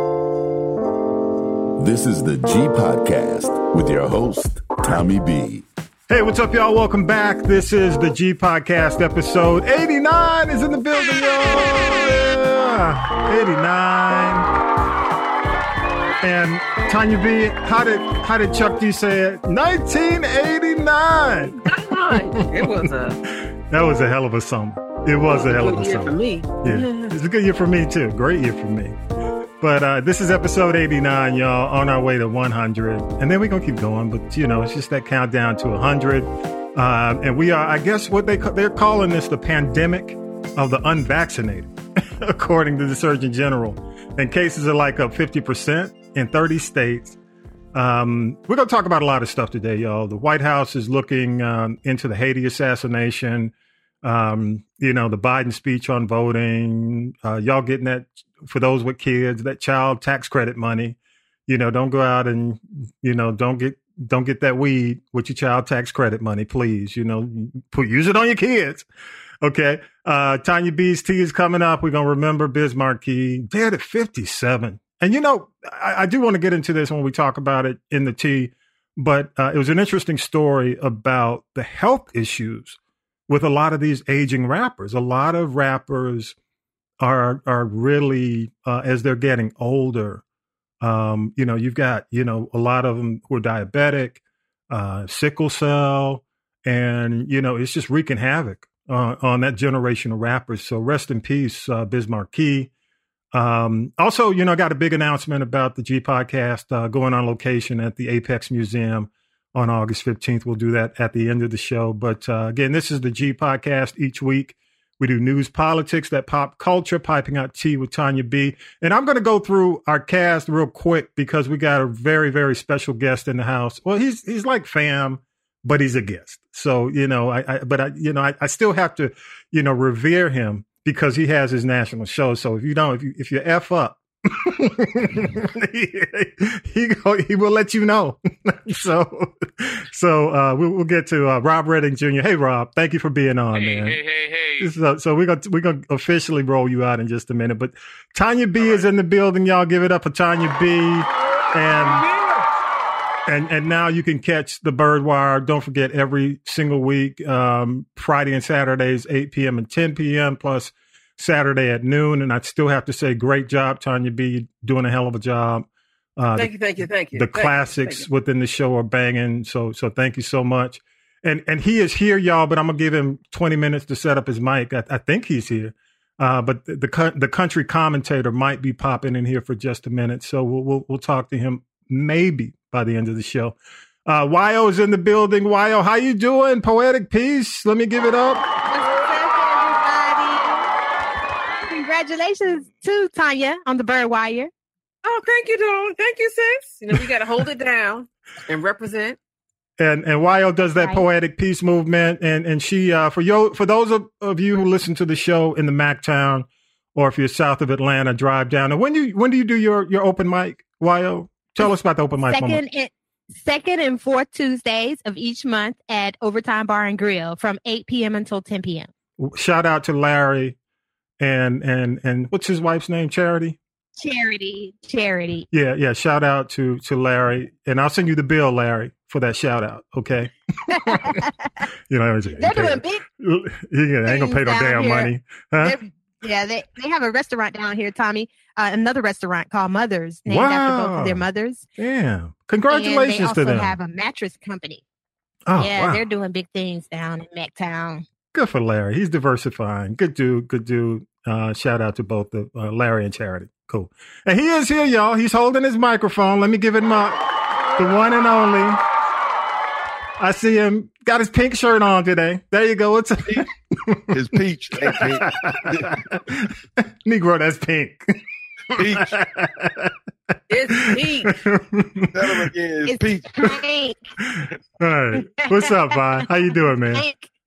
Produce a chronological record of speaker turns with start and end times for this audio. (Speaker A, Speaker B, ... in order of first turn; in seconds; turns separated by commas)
Speaker A: 1.8-5.7, Speaker B: 6.1-14.5, Speaker B: 16.2-29.0, Speaker C: 21.6-23.2, Speaker C: 25.3-27.1, Speaker B: 29.6-47.2, Speaker B: 47.7-68.8, Speaker B: 69.4-86.3, Speaker B: 87.0-90.2, Speaker B: 90.8-102.7, Speaker B: 103.3-144.0, Speaker D: 143.5-144.7, Speaker B: 144.6-152.1, Speaker D: 148.6-148.9, Speaker D: 152.1-152.4, Speaker B: 153.3-166.5, Speaker C: 166.4-168.1, Speaker B: 167.1-188.4, Speaker E: 188.7-190.7, Speaker E: 191.7-194.5, Speaker C: 195.0-199.2, Speaker B: 199.8-212.6, Speaker E: 200.8-201.0, Speaker E: 212.3-218.9, Speaker B: 219.2-220.6, Speaker B: 221.2-223.6, Speaker E: 224.0-225.5, Speaker B: 225.5-231.2, Speaker E: 230.7-231.5, Speaker B: 231.9-235.8, Speaker E: 232.3-233.0, Speaker E: 234.1-241.7, Speaker B: 240.3-241.3, Speaker B: 241.8-243.8, Speaker E: 242.7-244.8, Speaker B: 245.5-246.0, Speaker E: 245.6-248.1, Speaker B: 248.3-257.2, Speaker B: 257.8-258.8, Speaker B: 260.2-268.2, Speaker F: 264.1-266.0, Speaker B: 268.7-269.9, Speaker F: 268.8-269.1, Speaker C: 270.5-271.4, Speaker B: 270.7-272.5, Speaker F: 272.1-273.5, Speaker E: 272.9-274.0, Speaker B: 274.2-277.1, Speaker E: 275.4-277.3